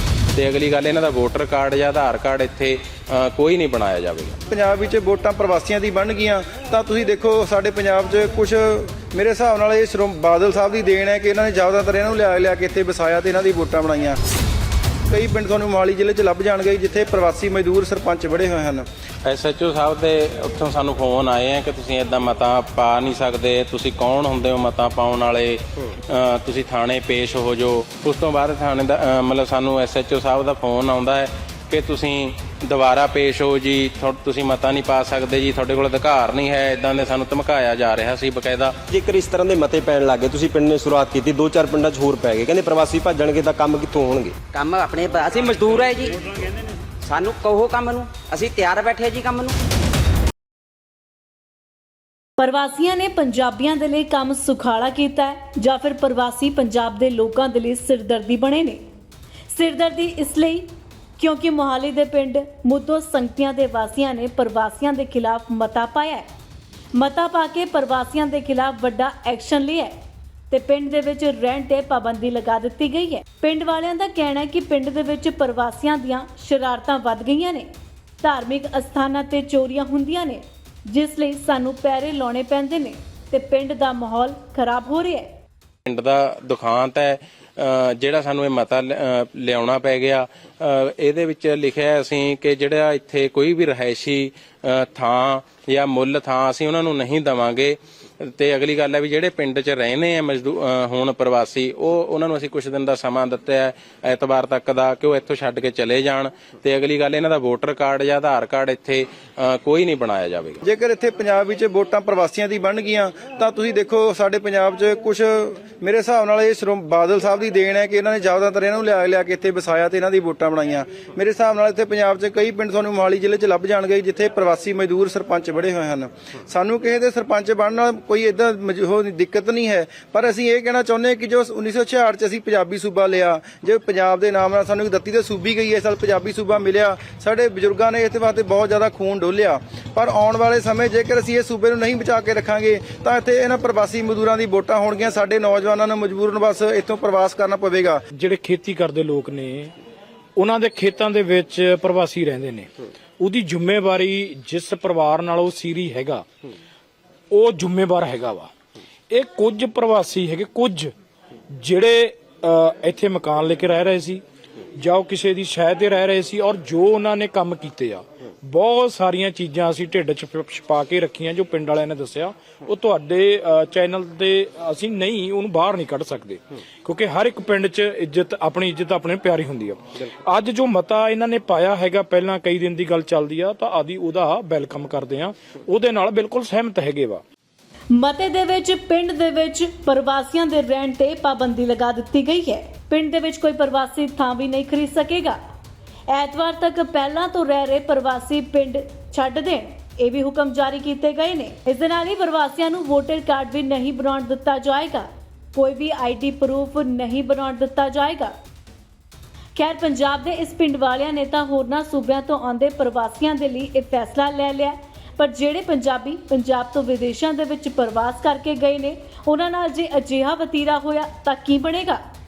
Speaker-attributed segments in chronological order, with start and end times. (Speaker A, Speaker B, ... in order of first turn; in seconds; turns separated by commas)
Speaker A: 0.3-4.4, Speaker B: 4.5-14.2, Speaker B: 15.1-18.9, Speaker A: 19.2-38.8, Speaker C: 38.9-44.4, Speaker D: 44.5-46.2, Speaker D: 47.0-49.5, Speaker E: 52.4-58.8, Speaker E: 59.5-60.6, Speaker E: 61.2-66.2, Speaker E: 67.0-69.9, Speaker E: 70.5-77.6, Speaker E: 78.2-85.2, Speaker A: 85.9-110.6, Speaker B: 110.6-148.0, Speaker F: 148.1-149.7, Speaker F: 150.4-156.2, Speaker F: 157.3-158.5, Speaker F: 159.1-160.9, Speaker F: 161.5-164.2, Speaker F: 164.8-187.2, Speaker E: 187.9-195.4, Speaker E: 196.1-208.3, Speaker E: 209.6-222.0